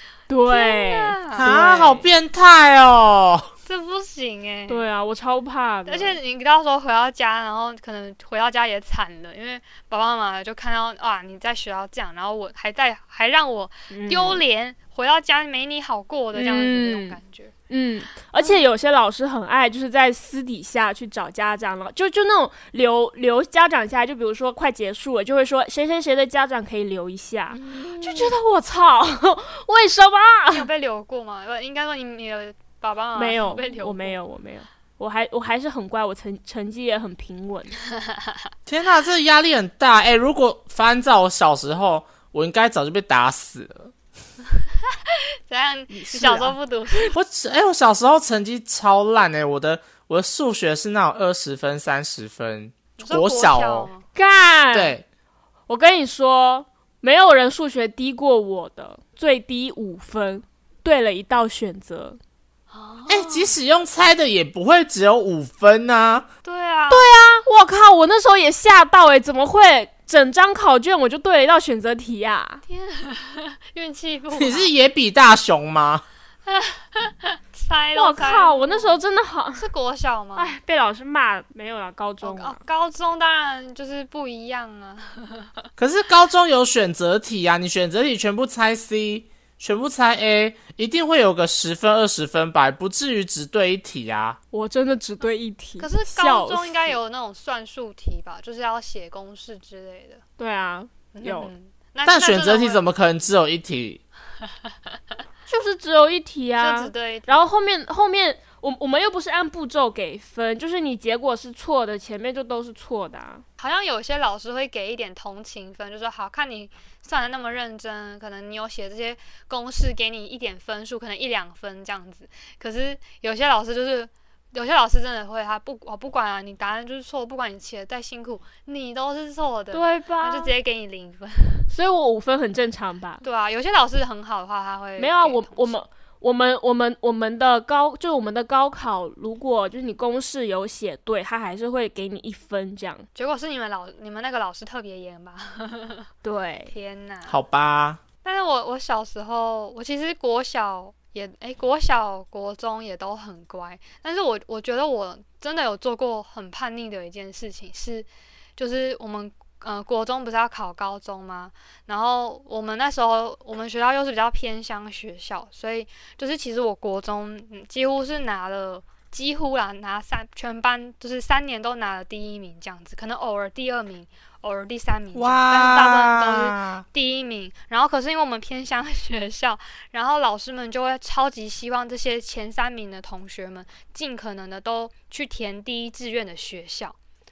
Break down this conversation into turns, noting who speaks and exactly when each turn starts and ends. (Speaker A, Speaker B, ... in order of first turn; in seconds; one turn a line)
Speaker A: 0.3-2.1
Speaker B: 0.5-1.5
Speaker C: 1.4-3.5
Speaker B: 3.7-4.8
Speaker A: 4.7-6.2
Speaker B: 5.9-17.5
Speaker A: 13.9-14.4
Speaker A: 16.3-17.2
Speaker A: 17.7-30.7
Speaker B: 27.5-28.4
Speaker B: 30.5-34.2
Speaker A: 33.2-37.7
Speaker B: 38.0-38.4
Speaker C: 38.7-43.9
Speaker B: 44.9-47.1
Speaker A: 45.9-46.5
Speaker C: 47.1-53.9
Speaker B: 53.0-54.0
Speaker A: 54.1-55.0
Speaker C: 54.7-55.0
Speaker A: 55.7-62.2
Speaker B: 62.7-63.5
Speaker C: 63.1-66.3
Speaker B: 66.4-67.1
Speaker A: 66.9-72.6
Speaker B: 72.7-74.7
Speaker C: 74.3-76.0
Speaker B: 76.5-79.0
Speaker A: 78.0-79.7
Speaker B: 79.5-80.5
Speaker A: 80.4-82.6
Speaker B: 82.2-85.5
Speaker C: 85.8-94.4
Speaker A: 94.5-97.0
Speaker B: 95.8-100.2
Speaker A: 100.4-101.5
Speaker B: 101.2-102.9
Speaker C: 102.1-104.0
Speaker A: 105.5-113.4
Speaker B: 106.6-107.4
Speaker B: 113.6-131.7
Speaker A: 129.7-130.5
Speaker A: 131.7-133.2
Speaker B: 133.2-135.8
Speaker A: 135.0-143.1
Speaker B: 143.2-146.1
Speaker A: 146.2-146.7
Speaker B: 146.7-147.4
Speaker C: 147.3-148.0
Speaker B: 148.2-187.0
Speaker C: 175.2-176.8